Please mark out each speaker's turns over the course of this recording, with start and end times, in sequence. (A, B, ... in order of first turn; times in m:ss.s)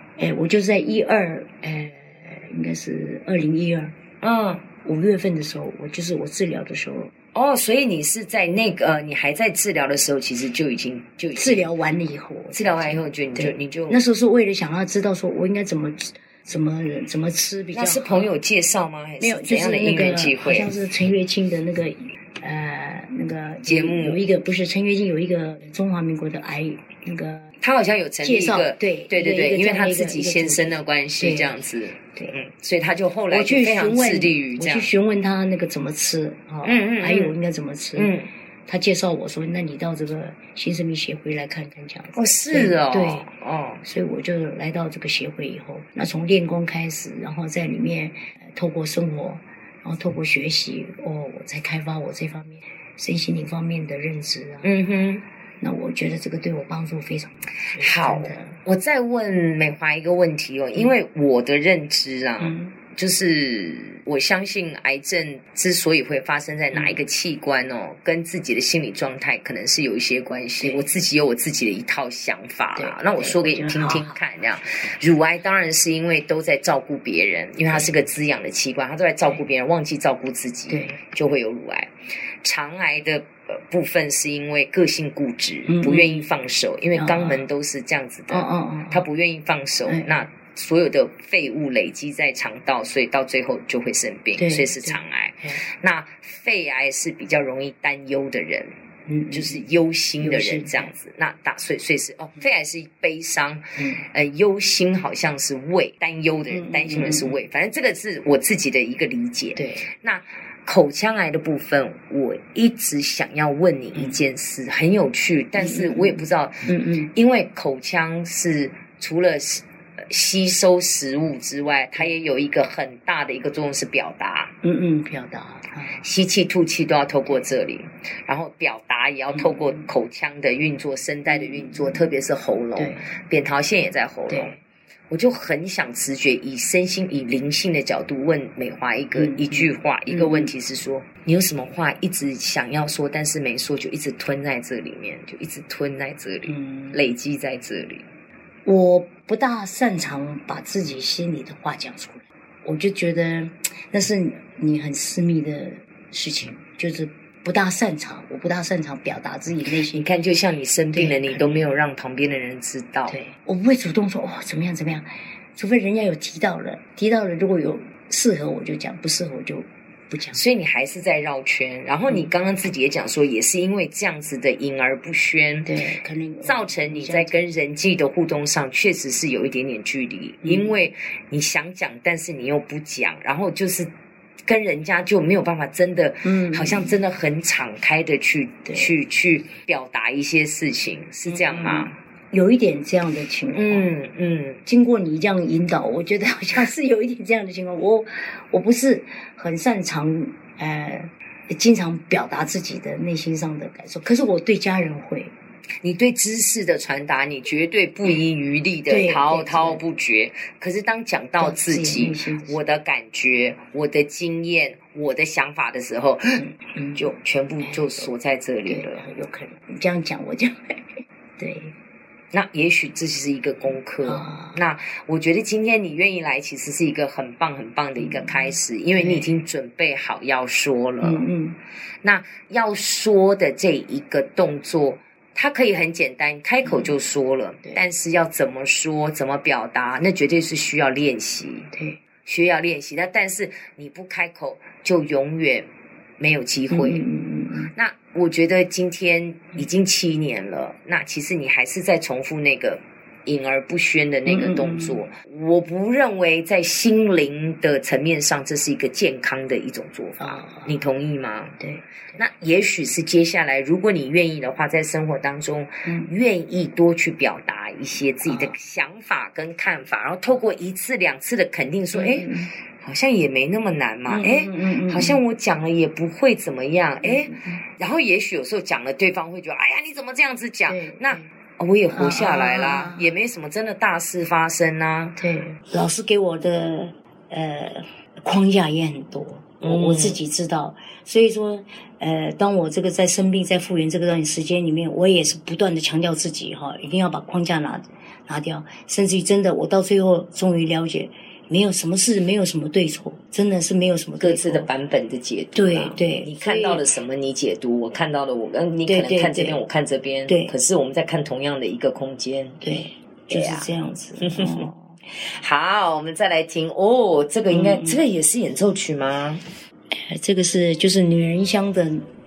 0:00.2-0:04.0 A
0:04.2-0:04.6 B
0:04.8-0:07.1 A
0:07.3-0:11.7 B
0:11.3-0:18.4 A
0:12.5-0:14.0 B
0:17.7-0:20.7 B
0:19.2-0:27.5 A
0:23.6-0:24.2 B
0:27.6-0:34.9 B
0:28.2-0:31.6 A
0:33.3-0:38.2 A
0:36.6-0:37.4 B
0:38.0-0:38.3 B
0:38.7-0:43.3 A
0:42.1-0:43.8 B
0:43.8-0:54.7 A
0:54.6-0:55.2 B
0:55.6-0:58.6 A
0:57.8-1:21.9 B
1:02.4-1:02.8 A
1:06.7-1:07.0 A
1:10.6-1:10.9 A
1:12.8-1:14.2 A
1:20.7-1:21.0 A
1:22.4-1:38.7 B
1:25.7-1:26.3 A
1:26.9-1:27.4 A
1:28.3-1:29.1 A
1:29.9-1:30.2 A
1:34.4-1:35.6 A
1:39.1-1:39.7 A
1:39.3-2:04.5 B
1:40.2-1:40.9 A
1:43.8-1:44.0 A
1:46.5-1:47.4 A
1:49.6-1:49.9 A
1:53.9-1:54.2 A
1:55.6-1:57.1 A
2:04.6-2:06.1 A
2:06.0-2:14.5 B
2:09.3-2:09.9 A
2:11.3-2:12.0 A
2:12.8-2:13.1 A
2:14.3-2:14.6 A
2:15.1-2:28.0 B
2:19.2-2:20.5 A
2:26.5-2:27.0 A
2:28.7-2:40.1 A
2:39.8-2:43.2 B
2:40.9-2:41.7 A
2:43.1-2:50.4 A
2:50.3-2:55.7 B
2:55.6-2:57.5 A
2:56.4-3:03.9 B
3:00.4-3:00.7 A
3:04.5-3:11.9 B
3:06.2-3:07.0 A
3:08.7-3:08.9 A
3:11.3-3:13.9 A
3:13.5-3:14.6 B
3:14.7-3:25.3 A
3:25.8-3:36.4 B
3:28.9-3:29.8 A
3:31.4-3:32.6 A
3:36.4-3:37.1 A
3:37.0-3:39.1 B
3:37.6-3:38.1 A
3:38.7-3:40.8 A
3:41.4-3:41.7 A
3:42.3-3:51.3 B
3:44.0-3:44.6 A
3:48.0-3:49.3 A
3:51.0-3:51.6 A
3:52.0-4:01.7 B
3:56.6-3:57.0 A
4:01.7-4:02.0 A
4:02.2-4:05.7 B
4:06.2-4:07.0 B
4:06.7-4:07.7 A
4:07.7-4:21.6 B
4:14.3-4:15.1 A
4:20.2-4:20.8 A
4:21.6-4:22.2 A
4:22.2-4:45.2 B
4:25.8-4:26.1 A
4:28.2-4:28.6 A
4:31.9-4:32.5 A
4:34.1-4:35.2 A
4:37.0-4:37.6 A
4:40.7-4:41.3 A
4:41.9-4:43.2 A
4:45.2-5:04.7 A
4:49.6-4:50.2 B
5:04.2-5:12.6 B
5:05.6-5:06.9 A
5:08.9-5:09.6 A
5:10.3-5:10.6 A
5:12.6-5:15.0 A
5:13.3-5:13.7 B
5:14.2-5:14.7 B
5:15.2-5:19.4 B
5:17.5-5:18.0 A
5:19.9-5:22.1 A